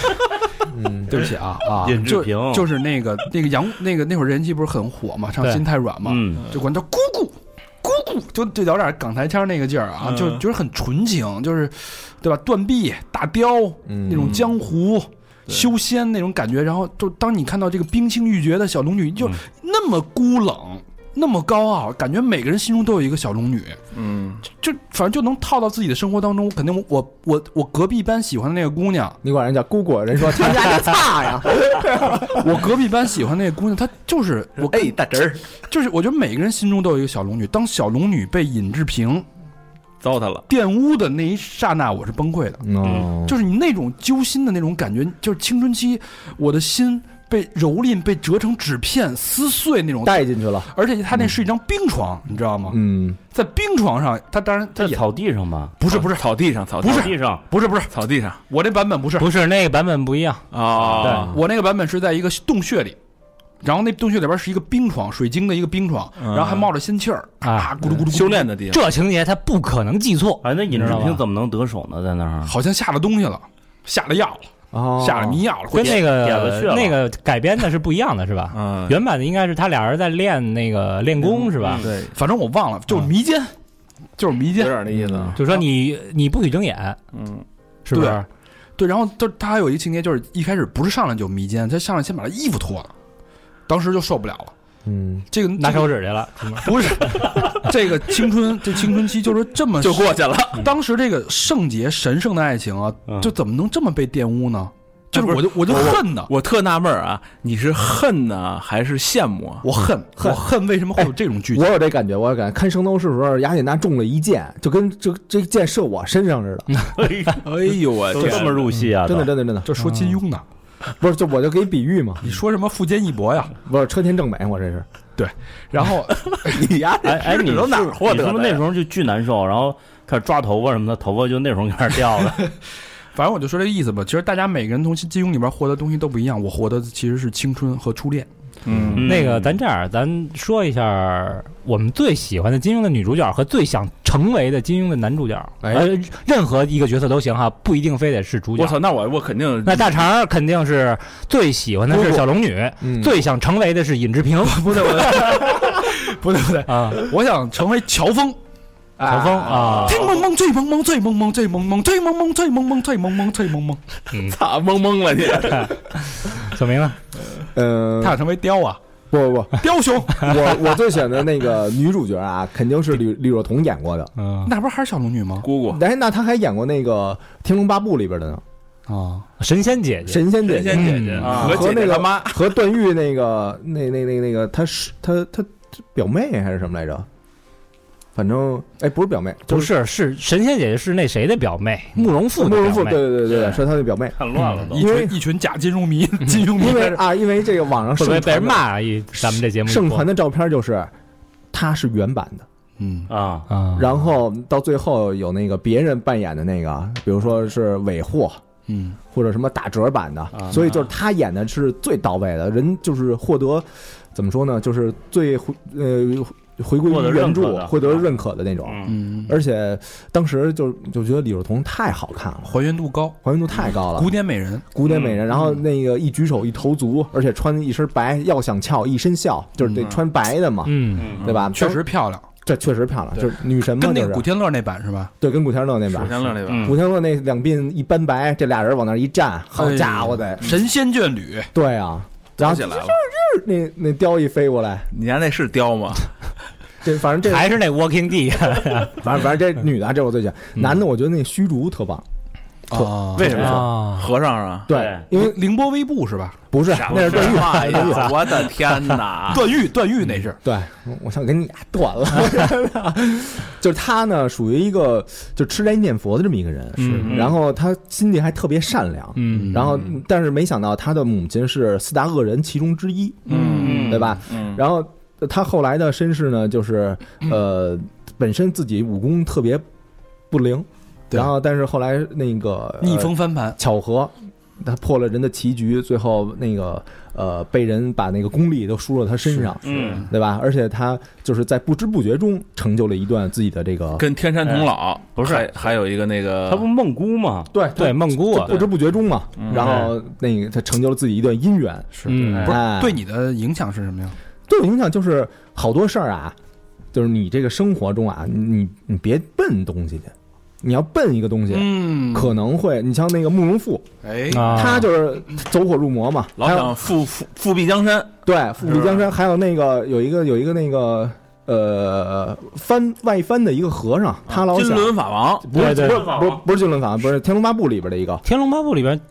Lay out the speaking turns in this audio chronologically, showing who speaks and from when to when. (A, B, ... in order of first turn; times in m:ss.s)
0:00.7-0:01.2 A
0:01.1-0:23.8 B
0:01.8-0:02.7 C
0:06.0-0:06.5 C
0:10.0-0:10.4 D
0:13.9-0:14.4 A
0:14.1-0:14.5 D
0:23.9-0:24.4 D
0:24.4-0:29.2 B
0:29.2-0:32.5 A
0:32.0-0:35.0 B
0:34.6-0:35.5 D
0:35.7-0:39.2 B
0:40.0-0:40.4 D
0:40.5-0:42.6 B
0:42.6-0:43.4 A
0:43.2-0:52.8 B
0:50.0-0:51.4 A
0:52.7-0:53.2 A
0:53.3-0:55.1 B
0:54.8-0:55.8 C
0:55.8-0:57.9 B
0:55.9-0:57.1 D
0:56.9-0:57.4 C
0:57.9-0:58.4 D
0:58.5-0:59.3 B
0:59.2-1:00.4 E
1:00.5-1:01.4 D
1:00.8-1:03.0 B
1:01.0-1:01.2 E
1:03.6-1:08.5 B
1:06.2-1:06.7 D
1:07.4-1:07.7 E
1:08.1-1:08.8 D
1:08.6-1:11.2 E
1:10.4-1:12.5 C
1:12.4-1:14.4 B
1:14.7-1:15.4 A
1:15.0-1:16.0 B
1:15.7-1:21.9 E
1:15.7-1:17.0 C
1:18.5-1:19.0 D
1:21.6-1:21.9 C
1:21.7-1:22.1 D
1:22.0-1:23.5 B
1:24.2-1:24.8 B
1:24.5-1:25.4 D
1:24.9-1:25.4 A
1:25.4-1:27.0 E
1:25.4-1:25.6 B
1:27.1-1:27.4 D
1:27.8-1:28.2 E
1:27.9-1:28.2 B
1:28.8-1:32.9 B
1:33.7-1:34.5 B
1:34.8-1:35.3 A
1:35.3-1:35.9 B
1:35.5-1:37.3 E
1:36.6-1:46.3 B
1:37.1-1:37.5 D
1:39.8-1:40.7 D
1:45.1-1:49.6 D
1:49.6-1:51.7 B
1:50.2-1:50.4 A
1:51.0-1:56.7 A
1:56.9-1:57.5 C
1:57.4-1:58.6 D
1:58.1-1:59.3 C
1:58.2-1:58.6 B
1:59.0-1:59.8 A
1:59.6-2:00.4 B
2:01.0-2:02.3 A
2:02.2-2:03.5 B
2:03.6-2:04.8 A
2:05.2-2:06.6 B
2:06.2-2:08.6 D
2:07.0-2:12.5 C
2:13.1-2:18.3 B
2:18.6-2:19.1 D
2:18.7-2:19.0 A
2:18.9-2:19.6 C
2:19.0-2:28.8 E
2:25.6-2:25.9 A
2:28.6-2:30.0 D
2:29.6-2:35.0 E
2:31.9-2:32.2 A
2:32.8-2:33.2 A
2:34.5-2:38.4 B
2:36.7-2:37.0 E
2:39.0-2:39.9 A
2:39.0-2:40.1 E
2:39.5-2:43.8 B
2:44.1-2:44.4 E
2:44.1-2:45.8 D
2:45.4-2:47.0 E
2:47.5-2:48.2 A
2:48.0-2:48.8 B
2:49.1-2:54.1 A
2:49.6-2:50.6 B
2:54.2-2:54.5 E
2:54.4-2:55.5 B
2:55.4-2:55.8 D
2:55.7-2:58.4 A
2:58.9-2:59.3 B
2:59.4-3:01.4 E
3:00.0-3:07.1 A
3:00.4-3:02.6 D
3:01.2-3:01.6 C
3:08.1-3:09.7 A
3:09.5-3:13.1 E
3:12.2-3:15.1 A
3:13.3-3:13.6 C
3:14.2-3:14.8 C
3:14.6-3:17.0 B
3:16.4-3:20.9 A
3:18.0-3:20.1 E
3:21.5-3:22.4 A
3:22.8-3:23.1 B
3:23.1-3:23.5 C
3:23.5-3:23.8 E
3:23.7-3:28.4 A
3:28.7-3:29.0 B
3:29.1-3:42.6 A
3:30.3-3:30.6 C
3:36.9-3:38.0 C
3:38.6-3:39.0 C
3:38.8-3:39.4 B
3:42.5-3:44.6 B
3:43.2-3:44.2 A
3:44.7-3:51.8 A
3:49.6-3:50.0 B
3:50.6-3:51.1 E
3:51.0-3:51.2 C
3:51.2-3:51.5 D
3:51.5-3:52.2 B
3:52.4-3:54.2 A
3:53.7-3:55.1 B
3:55.2-4:00.6 A
3:55.9-3:56.8 D
3:56.4-3:56.8 C
3:59.6-4:01.5 B
4:01.5-4:04.9 A
4:02.4-4:03.0 D
4:04.9-4:06.1 D
4:06.8-4:07.6 A
4:07.2-4:09.0 E
4:08.9-4:12.0 A
4:12.7-4:13.5 B
4:12.7-4:13.6 A
4:13.2-4:14.7 D
4:13.2-4:14.1 E
4:14.7-4:15.4 A
4:14.7-4:15.1 C
4:15.1-4:16.4 B
4:16.5-4:18.4 A
4:16.7-4:19.5 D
4:16.9-4:17.4 C
4:19.3-4:20.4 B
4:20.4-4:39.6 A
4:26.8-4:27.2 B
4:26.8-4:27.1 D
4:27.0-4:27.3 C
4:29.2-4:29.6 E
4:29.3-4:29.9 B
4:33.3-4:34.0 B
4:33.3-4:34.6 D
4:33.6-4:34.1 C
4:40.3-4:54.0 A
4:42.8-4:43.6 B
4:49.3-4:50.1 B
4:49.6-4:50.1 C
4:54.0-4:56.7 D
4:54.4-4:55.7 C
4:56.5-4:57.5 C
4:57.5-5:03.0 A
4:57.8-4:58.6 E
4:59.4-4:59.9 D
4:59.5-4:59.9 B
5:01.9-5:04.2 B
5:02.1-5:02.6 E
5:02.2-5:02.6 C
5:04.5-5:06.4 A
5:06.9-5:16.8 A
5:11.5-5:12.3 B
5:14.0-5:14.6 B
5:14.3-5:14.9 E
5:16.4-5:18.1 D
5:18.2-5:28.2 A
5:18.6-5:19.0 D
5:24.3-5:25.5 D
5:25.5-5:26.1 E
5:25.7-5:26.4 C
5:28.2-5:29.0 E